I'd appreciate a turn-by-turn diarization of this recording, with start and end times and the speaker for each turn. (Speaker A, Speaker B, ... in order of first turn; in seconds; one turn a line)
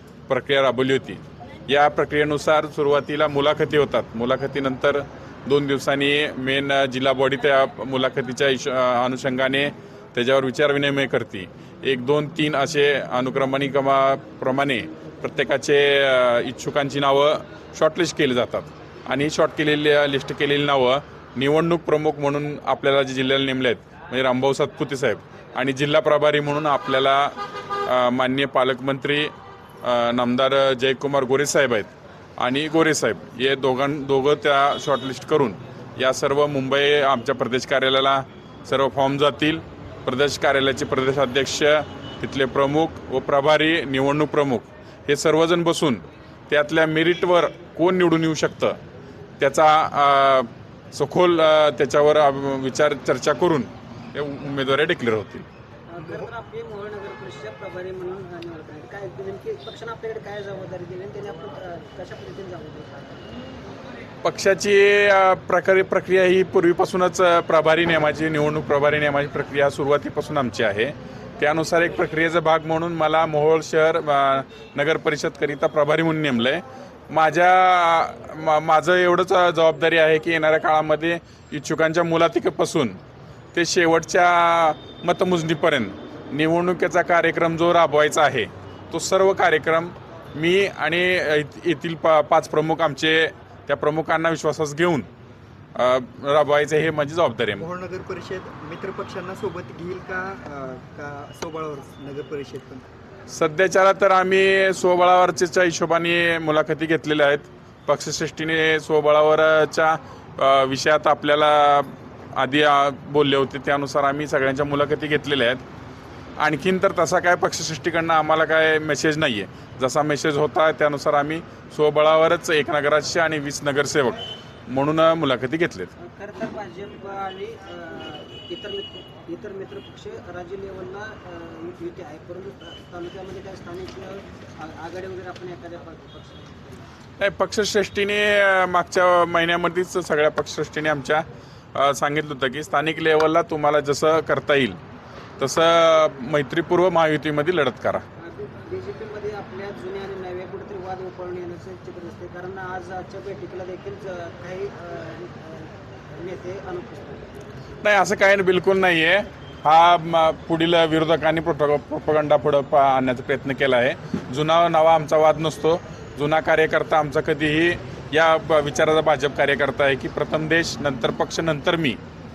Speaker A: 0.3-29.3
Speaker A: 29.8-48.8
Speaker A: 49.4-55.5
Speaker B: 55.9-63.3
Speaker A: 64.2-83.0
Speaker A: 83.5-95.1
Speaker A: 95.8-97.7
Speaker C: 97.6-102.8
Speaker A: 103.3-115.6
Speaker A: 116.4-125.9
Speaker B: 126.0-136.8
Speaker A: 137.2-144.8
Speaker A: 145.4-148.0
Speaker B: 148.2-157.2
Speaker A: 157.8-172.0